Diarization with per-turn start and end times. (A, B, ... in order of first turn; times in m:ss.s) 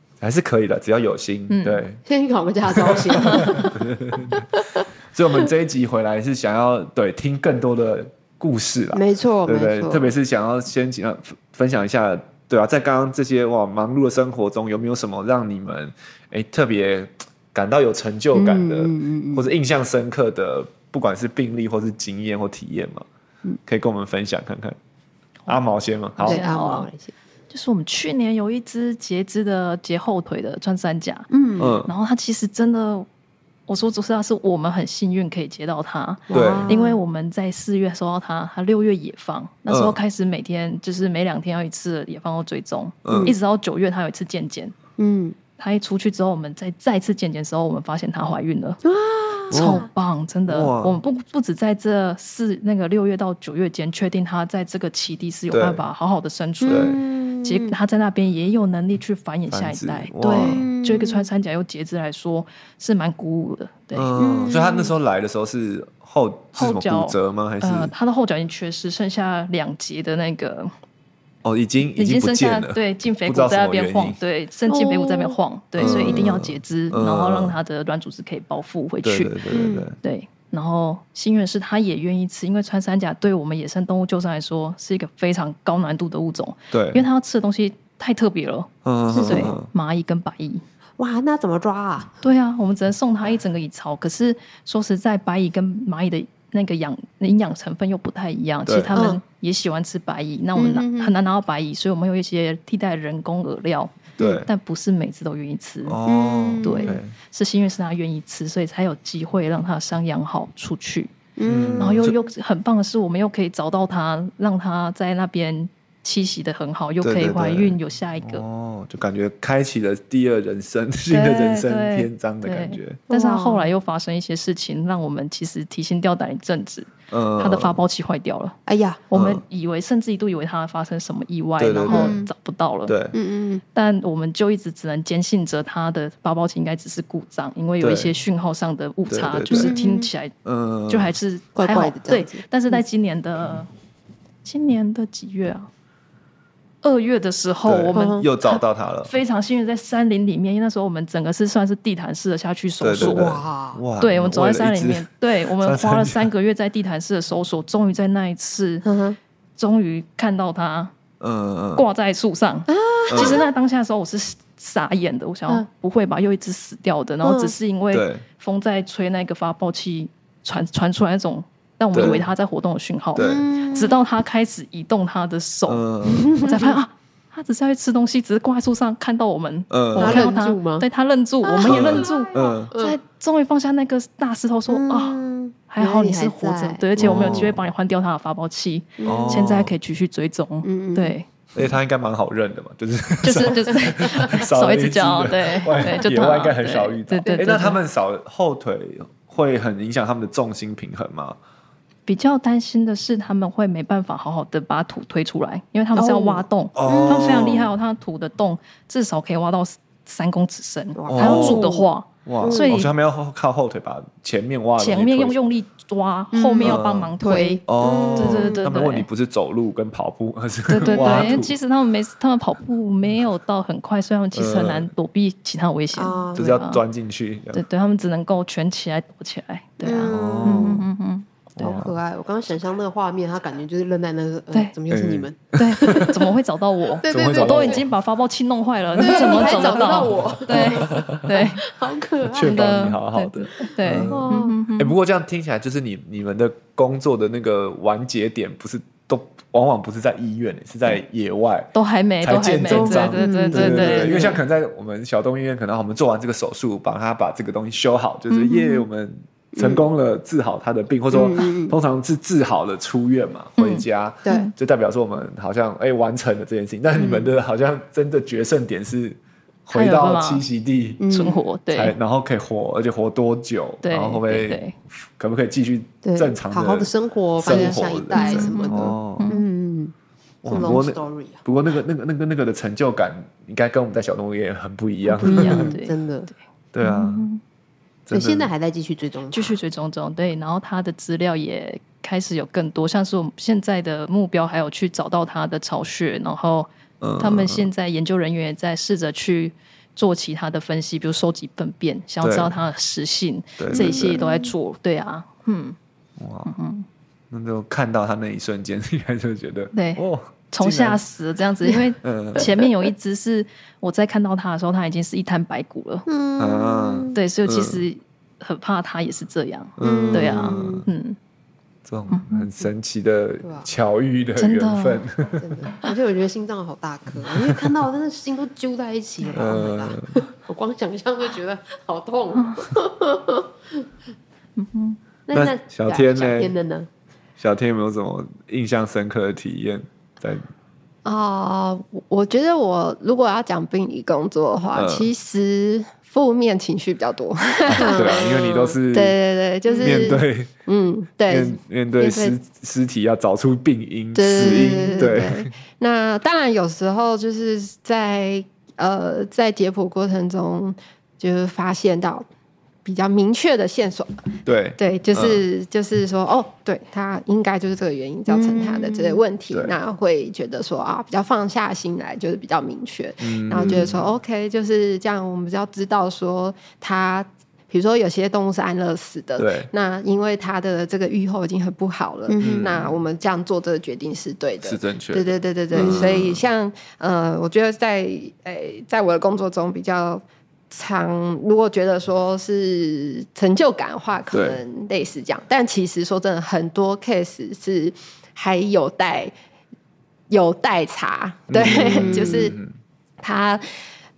0:00.2-0:02.0 A
0:01.5-0:01.8 B
0:02.0-0:04.8 C
0:02.7-0:04.4 A
0:05.1-0:23.0 A
0:08.9-0:10.1 C
0:18.3-0:19.4 C
0:23.6-0:24.8 A
0:25.5-0:26.4 A
0:26.2-0:27.1 C
0:26.2-0:26.9 B
0:27.5-0:31.3 B
0:31.3-0:31.8 C
0:31.6-0:31.9 A
0:31.8-0:33.1 B
0:33.7-0:44.7 B
0:36.3-0:37.0 C
0:36.3-0:36.8 A
0:39.7-0:40.0 A
0:43.0-0:43.3 A
0:43.1-0:43.4 C
0:45.0-0:45.4 C
0:45.6-0:48.8 B
0:48.8-0:49.9 C
0:49.5-1:04.1 B
0:49.5-0:49.9 A
0:50.5-0:51.0 A
0:55.5-0:55.8 A
0:56.6-0:57.8 C
0:56.7-0:57.0 A
0:59.5-1:00.7 A
1:00.3-1:01.3 C
1:03.9-1:07.9 A
1:04.2-1:04.9 C
1:06.5-1:10.7 B
1:11.4-1:14.2 A
1:11.9-1:19.4 B
1:14.7-1:16.3 C
1:15.8-1:17.6 A
1:19.0-1:20.0 A
1:19.5-1:19.9 C
1:20.0-1:30.6 B
1:26.7-1:27.0 A
1:28.8-1:29.7 A
1:29.1-1:29.5 C
1:31.0-1:32.2 C
1:32.2-1:46.0 B
1:38.6-1:39.0 A
1:38.9-1:39.2 C
1:40.6-1:41.1 C
1:44.2-1:44.5 A
1:45.8-1:47.1 A
1:46.0-1:47.0 C
1:46.6-1:51.1 B
1:51.4-1:52.1 C
1:51.4-1:52.1 A
1:51.8-1:58.4 B
1:57.0-2:03.0 A
2:01.1-2:08.6 B
2:03.1-2:03.7 C
2:07.1-2:07.8 A
2:08.6-2:09.1 C
2:09.1-2:09.4 A
2:09.1-2:13.0 B
2:11.6-2:12.2 A
2:11.8-2:12.3 C
2:12.9-2:13.1 A
2:13.1-2:13.6 C
2:13.7-2:20.3 B
2:17.8-2:18.1 A
2:19.1-2:19.7 A
2:19.5-2:20.1 C
2:20.4-2:21.1 A
2:20.9-2:23.7 B
2:21.5-2:22.8 C
2:24.4-2:25.7 B
2:26.8-2:33.3 B
2:27.6-2:29.1 A
2:27.9-2:28.2 C
2:32.8-2:36.3 A
2:33.0-2:33.8 C
2:34.0-2:38.8 B
2:38.8-2:39.2 C
2:39.6-2:40.9 B
2:41.2-2:41.8 A
2:41.7-3:11.3 B
2:42.8-2:43.4 C
2:43.1-2:43.4 A
2:47.2-2:47.5 C
2:47.9-2:48.2 A
2:51.9-2:52.3 A
2:53.1-2:53.4 A
2:53.2-2:54.0 C
2:55.7-2:56.3 A
2:56.0-2:56.8 C
2:59.7-3:00.3 A
3:00.0-3:00.8 C
3:01.4-3:03.0 C
3:01.6-3:02.7 A
3:04.7-3:07.5 C
3:07.0-3:07.6 A
3:09.0-3:09.5 C
3:09.0-3:09.7 A
3:10.6-3:11.2 C
3:11.5-3:21.4 A
3:13.2-3:17.8 B
3:17.2-3:17.6 C
3:22.0-3:32.9 B
3:25.9-3:27.4 C
3:26.7-3:27.7 A
3:31.0-3:31.9 C
3:31.1-3:31.6 A
3:32.2-3:35.4 A
3:32.4-3:32.7 C
3:34.8-3:39.1 B
3:36.3-3:38.6 C
3:36.6-3:37.1 A
3:37.6-3:41.5 A
3:40.7-3:46.8 B
3:40.8-3:41.4 C
3:44.3-3:44.9 A
3:45.9-3:46.5 C
3:46.4-3:47.6 A
3:47.5-3:51.8 B
3:49.8-3:50.8 C
3:50.0-3:50.8 A
3:51.5-3:51.9 A
3:51.6-3:56.2 C
3:54.9-3:56.1 A
3:55.6-4:01.6 B
3:57.0-3:57.8 C
3:57.0-3:57.9 A
3:58.9-4:01.4 A
3:59.0-4:02.9 C
4:02.3-4:31.0 A
4:02.4-4:05.0 B
4:03.6-4:04.6 C
4:11.7-4:14.4 B
4:12.7-4:14.4 C
4:19.5-4:19.8 C
4:21.1-4:21.8 C
4:23.6-4:24.5 B
4:27.0-4:27.3 C
4:29.7-4:30.4 B
4:31.0-4:31.4 C
4:31.1-4:31.9 B
4:31.7-4:34.6 A
4:33.8-4:34.8 B
4:35.2-4:39.3 A
4:36.0-4:39.9 C
4:38.1-4:39.4 B
4:40.4-4:45.8 A
4:40.4-4:41.4 C
4:45.2-4:46.3 C
4:45.2-4:47.4 B
4:46.7-4:47.3 A
4:48.1-4:48.5 A
4:48.1-4:49.6 C
4:49.3-5:05.8 B
4:57.0-4:57.7 A
5:02.2-5:02.5 A
5:03.6-5:04.2 A
5:03.7-5:04.5 C
5:06.2-5:06.5 A
5:06.4-5:06.8 B
5:07.3-5:11.0 A
5:09.7-5:16.1 B
5:11.7-5:12.7 A
5:16.1-5:17.2 C
5:16.4-5:17.8 A
5:17.1-5:21.2 B
5:19.8-5:20.8 A
5:19.8-5:20.7 C
5:21.8-5:25.6 A
5:22.1-5:22.5 B
5:23.4-5:23.7 C
5:24.4-5:25.1 B
5:25.4-5:33.5 C
5:27.2-5:27.7 A
5:29.3-5:30.2 A
5:34.6-5:35.0 B
5:35.3-5:36.9 C
5:35.3-5:36.5 A
5:37.4-5:40.4 A
5:41.0-5:52.4 D
5:44.7-5:45.1 A
5:47.7-5:49.2 A
5:47.8-5:48.4 C
5:49.7-5:50.2 C
5:49.8-5:50.5 A
5:51.3-5:55.5 A
5:54.1-6:02.2 D
5:54.4-5:55.1 C
6:02.8-6:04.3 D
6:04.4-6:05.4 A
6:04.8-6:39.3 D
6:08.3-6:09.2 C
6:13.2-6:14.0 A
6:13.5-6:14.0 C
6:19.4-6:19.7 A
6:22.3-6:22.7 C
6:22.4-6:23.0 A
6:24.6-6:26.4 A
6:25.7-6:26.1 C
6:34.3-6:34.6 A
6:40.3-6:42.6 D
6:41.5-6:42.7 A
6:41.9-6:42.5 C
6:43.2-6:43.6 D